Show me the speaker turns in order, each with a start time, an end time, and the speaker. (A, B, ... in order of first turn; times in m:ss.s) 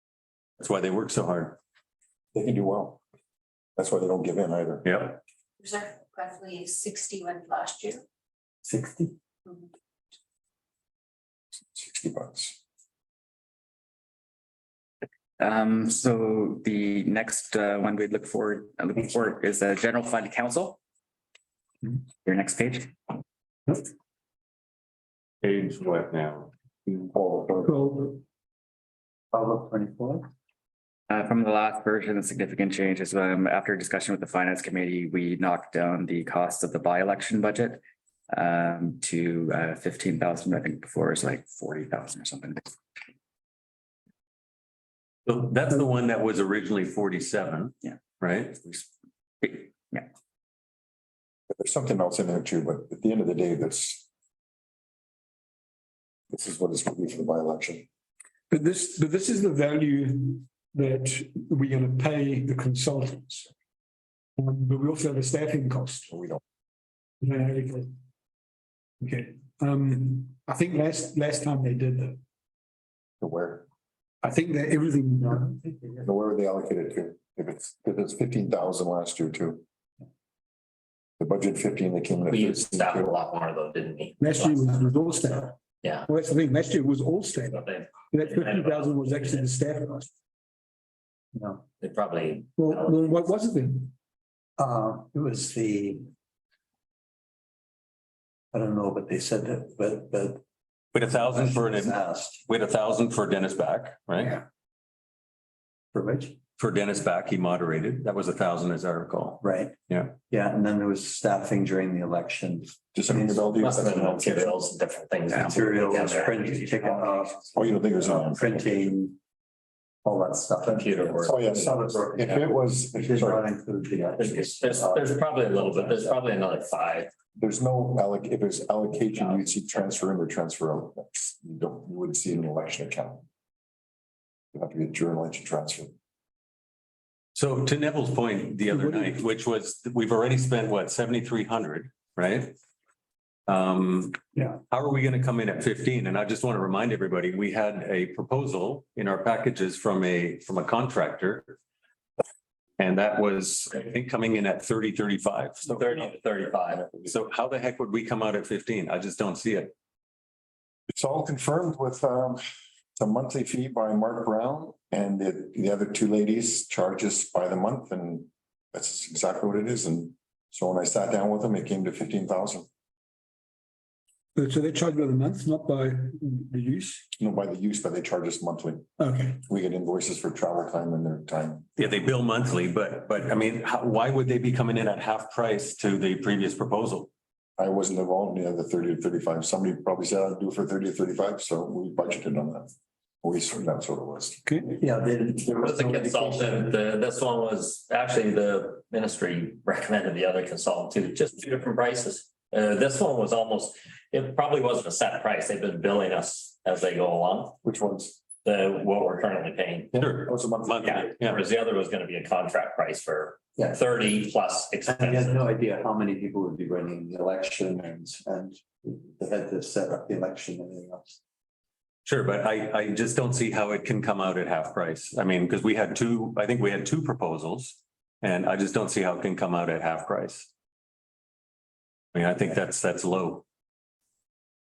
0:00.6-0:01.6 A
0:02.3-0:03.0 B
0:03.8-0:04.9 B
0:05.6-0:08.0 C
0:08.6-0:09.1 D
0:11.6-0:12.6 B
0:15.4-0:20.8 E
0:21.9-0:23.1 E
0:25.4-0:26.5 A
0:26.9-0:27.8 B
0:27.7-0:28.2 F
0:29.3-0:30.2 D
0:31.1-0:42.7 E
0:45.2-0:48.6 A
0:49.4-0:50.1 E
0:51.6-0:54.1 B
0:56.3-0:57.9 B
0:58.5-1:03.5 F
1:04.4-1:06.1 F
1:06.1-1:06.4 B
1:07.2-1:07.9 F
1:09.0-1:12.2 F
1:13.2-1:13.7 B
1:14.2-1:15.6 F
1:16.0-1:19.6 B
1:21.2-1:23.1 B
1:22.3-1:24.7 G
1:24.2-1:30.1 F
1:27.5-1:29.4 G
1:31.3-1:31.6 D
1:31.8-1:33.1 G
1:32.6-1:33.9 F
1:34.6-1:36.1 D
1:38.5-1:40.4 D
1:40.9-1:44.4 A
1:41.0-1:42.4 D
1:45.9-1:46.4 D
1:46.6-1:50.1 A
1:49.4-1:49.8 D
1:50.3-1:53.6 D
1:52.9-1:54.6 B
1:53.6-1:57.3 G
1:55.3-1:59.2 D
1:57.5-1:59.0 B
2:00.0-2:06.0 D
2:00.6-2:01.4 G
2:01.2-2:03.4 B
2:04.2-2:07.1 G
2:07.4-2:13.2 B
2:14.5-2:15.9 B
2:17.3-2:22.5 A
2:18.7-2:19.2 F
2:23.5-2:24.1 A
2:24.7-2:31.5 A
2:32.8-2:35.7 A
2:35.6-2:36.8 G
2:35.7-2:36.1 B
2:36.7-2:37.2 B
2:37.1-2:39.7 A
2:40.9-2:42.4 B
2:43.0-2:52.7 B
2:54.3-2:57.1 F
2:57.2-2:58.9 B
2:59.0-2:59.4 F
2:59.4-3:01.7 B
3:01.8-3:07.1 A
3:07.6-3:12.7 B
3:13.2-3:14.4 B
3:14.4-3:14.8 F
3:14.7-3:16.7 D
3:15.5-3:27.5 G
3:27.6-3:28.2 B
3:28.4-3:35.5 G
3:29.9-3:31.2 B
3:33.6-3:33.8 D
3:34.8-3:41.2 D
3:42.0-3:50.5 A
3:52.1-3:53.4 A